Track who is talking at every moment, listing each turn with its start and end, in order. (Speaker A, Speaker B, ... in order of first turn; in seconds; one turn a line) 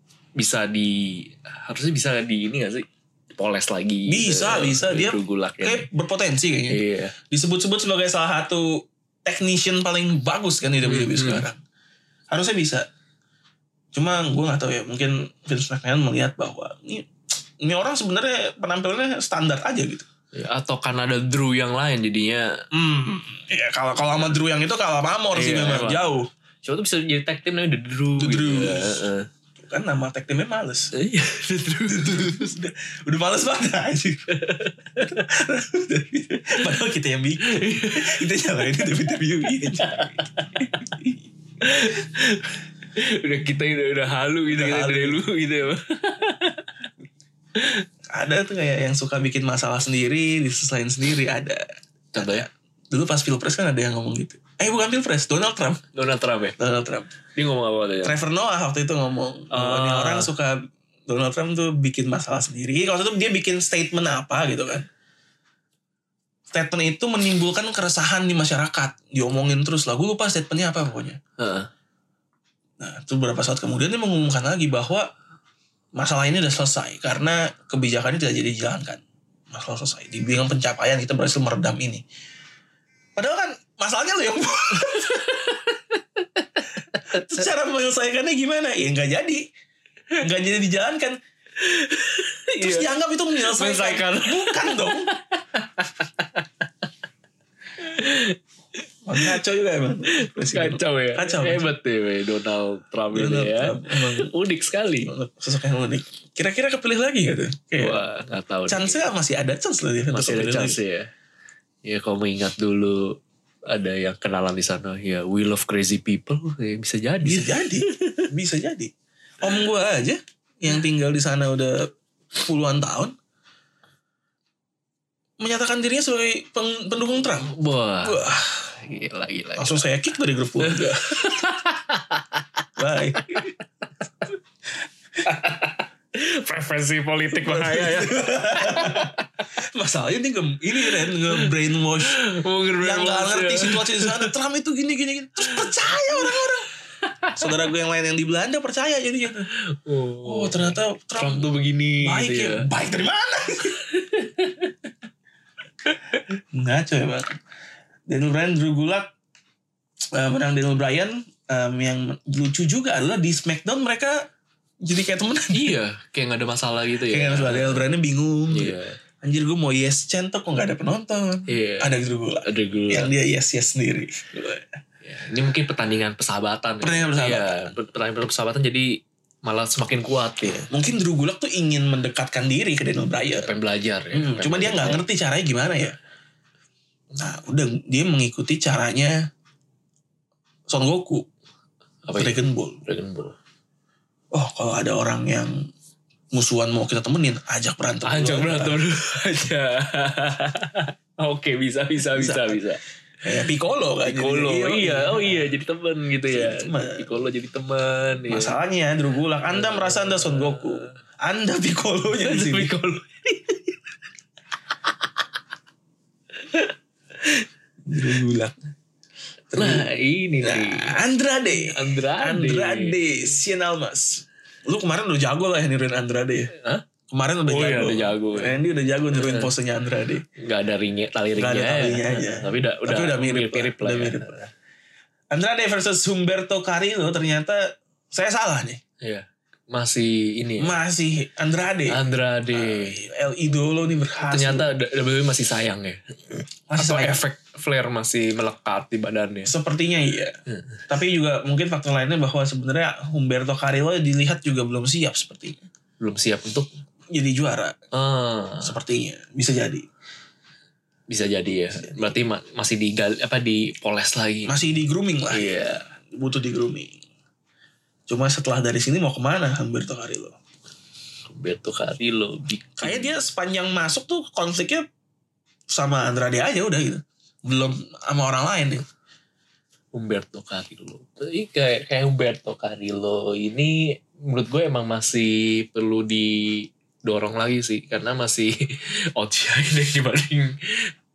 Speaker A: 0.4-5.9
Speaker B: 4.1-11.6
Speaker A: 6.7-7.2
Speaker A: 10.8-11.4
Speaker B: 12.3-12.9
Speaker B: 13.9-17.1
Speaker B: 17.6-20.1
Speaker A: 20.3-22.6
Speaker B: 22.7-26.3
Speaker A: 24.1-24.4
Speaker A: 25.3-26.1
Speaker A: 26.6-29.3
Speaker B: 28.2-29.0
Speaker B: 29.6-30.9
Speaker A: 30.9-32.6
Speaker B: 31.9-34.3
Speaker A: 34.3-35.2
Speaker B: 35.0-41.2
Speaker A: 37.4-38.9
Speaker A: 39.6-40.8
Speaker A: 41.6-46.7
Speaker B: 44.5-45.2
Speaker A: 47.5-47.8
Speaker B: 48.1-55.8
Speaker A: 52.1-52.5
Speaker A: 55.9-56.6
Speaker B: 56.6-57.1
Speaker A: 57.3-58.2
Speaker B: 58.0-64.9
Speaker A: 59.5-60.3
Speaker B: 66.5-71.2
Speaker A: 71.4-71.7
Speaker B: 72.8-75.1
Speaker B: 76.0-82.0
Speaker B: 83.2-85.2
Speaker A: 84.8-87.3
Speaker B: 87.0-89.4
Speaker B: 90.2-91.2
Speaker A: 91.6-92.9
Speaker B: 92.6-95.1
Speaker A: 93.4-96.7
Speaker A: 97.8-99.4
Speaker B: 99.0-101.7
Speaker A: 100.1-105.1
Speaker B: 103.1-104.3
Speaker B: 105.1-108.0
Speaker A: 107.8-109.1
Speaker B: 108.7-110.8
Speaker A: 110.1-111.1
Speaker A: 111.8-118.3
Speaker B: 117.2-123.1
Speaker B: 125.4-127.5
Speaker A: 127.5-129.9
Speaker B: 128.0-128.7
Speaker B: 129.6-131.2
Speaker A: 130.6-132.6
Speaker B: 132.8-133.5
Speaker A: 133.2-133.6
Speaker A: 135.2-139.2
Speaker B: 137.3-139.1
Speaker B: 139.7-142.2
Speaker A: 141.1-144.3
Speaker B: 142.8-146.7
Speaker A: 145.4-146.4
Speaker A: 147.0-147.6
Speaker B: 147.3-149.5
Speaker A: 149.7-152.7
Speaker B: 150.2-151.5
Speaker B: 152.0-153.8
Speaker A: 153.8-154.7
Speaker B: 156.5-157.3
Speaker B: 158.1-159.1
Speaker B: 160.1-164.3
Speaker B: 164.8-165.8
Speaker A: 165.5-167.9
Speaker B: 167.1-174.8
Speaker A: 168.5-169.0
Speaker A: 171.5-173.1
Speaker A: 175.0-180.7
Speaker B: 176.8-177.7
Speaker B: 180.4-183.5
Speaker A: 183.3-185.0
Speaker B: 184.1-185.9
Speaker B: 187.2-189.2
Speaker B: 190.7-191.2
Speaker A: 192.1-193.3
Speaker B: 192.2-192.8
Speaker B: 194.3-195.7
Speaker B: 196.3-198.8
Speaker A: 198.0-202.8
Speaker B: 202.1-202.6
Speaker B: 203.2-205.5
Speaker A: 204.0-208.6
Speaker B: 206.3-207.1
Speaker B: 208.3-212.7
Speaker A: 209.5-210.9
Speaker A: 212.2-213.8
Speaker A: 216.4-217.5
Speaker B: 217.8-218.6
Speaker B: 219.5-219.8
Speaker A: 219.5-220.9
Speaker B: 220.4-226.5
Speaker A: 221.5-223.3
Speaker A: 226.5-226.8
Speaker B: 227.1-230.2
Speaker A: 227.5-228.6
Speaker A: 229.1-229.5
Speaker A: 230.4-234.5
Speaker B: 231.3-234.4
Speaker B: 235.3-238.8
Speaker A: 239.0-240.8
Speaker B: 240.6-242.0
Speaker A: 241.9-243.0
Speaker B: 242.5-244.7
Speaker A: 244.2-246.0
Speaker B: 246.7-247.2
Speaker A: 246.8-249.5
Speaker B: 249.4-250.3
Speaker A: 250.5-250.8
Speaker B: 250.9-255.6
Speaker A: 256.0-256.8
Speaker B: 257.1-257.7
Speaker A: 257.9-258.7
Speaker B: 258.6-259.9
Speaker A: 261.1-264.6
Speaker B: 261.7-262.1
Speaker B: 264.5-265.5
Speaker A: 265.3-265.9
Speaker B: 266.1-267.0
Speaker B: 268.1-270.4
Speaker A: 271.3-273.1
Speaker B: 272.8-274.9
Speaker B: 275.7-278.8
Speaker A: 279.9-290.9